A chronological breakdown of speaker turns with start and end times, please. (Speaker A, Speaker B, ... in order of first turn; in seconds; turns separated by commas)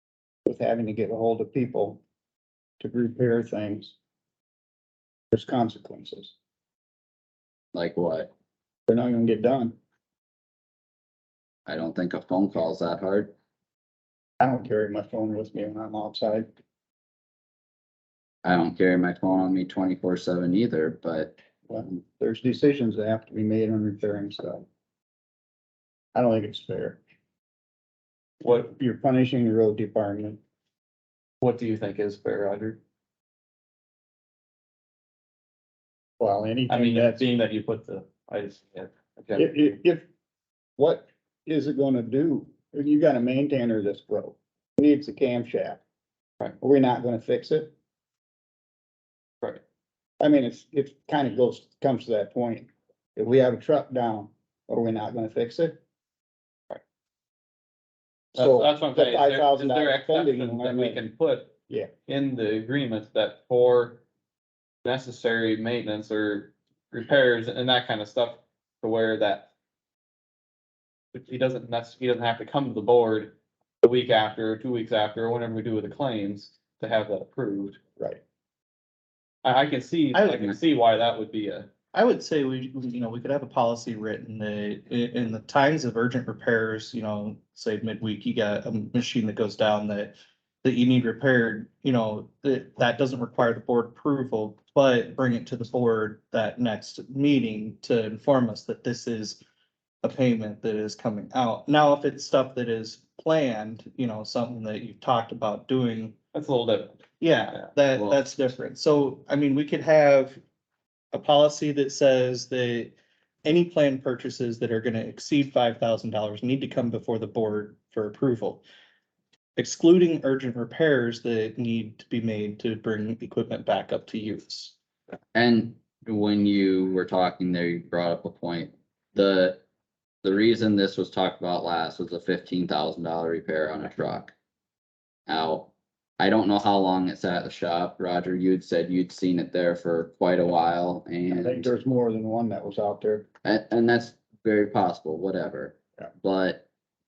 Speaker A: 0.5-2.0, Speaker A: 2.8-4.0, Speaker A: 5.3-6.3, Speaker B: 7.7-8.3, Speaker A: 8.9-9.8, Speaker B: 11.7-13.3, Speaker A: 14.4-16.5, Speaker B: 18.4-21.4, Speaker A: 21.7-24.7, Speaker A: 26.1-27.0, Speaker C: 28.4-28.7, Speaker A: 28.4-30.4, Speaker C: 31.4-32.8, Speaker A: 36.2-37.2, Speaker C: 36.7-39.5, Speaker A: 39.4-40.0, Speaker A: 40.8-45.8, Speaker A: 46.6-47.7, Speaker A: 50.2-55.8, Speaker A: 58.3-61.0, Speaker C: 58.4-61.5, Speaker C: 62.1-64.0, Speaker C: 64.8-69.5, Speaker C: 71.1-77.8, Speaker C: 79.4-81.7, Speaker D: 80.1-80.6, Speaker D: 81.9-99.4, Speaker D: 100.0-106.2, Speaker C: 106.3-108.2, Speaker D: 107.2-110.4, Speaker D: 111.1-118.7, Speaker D: 119.6-124.7, Speaker B: 125.3-129.6, Speaker B: 130.2-134.3, Speaker B: 135.3-141.7, Speaker A: 141.3-143.3, Speaker B: 143.4-146.6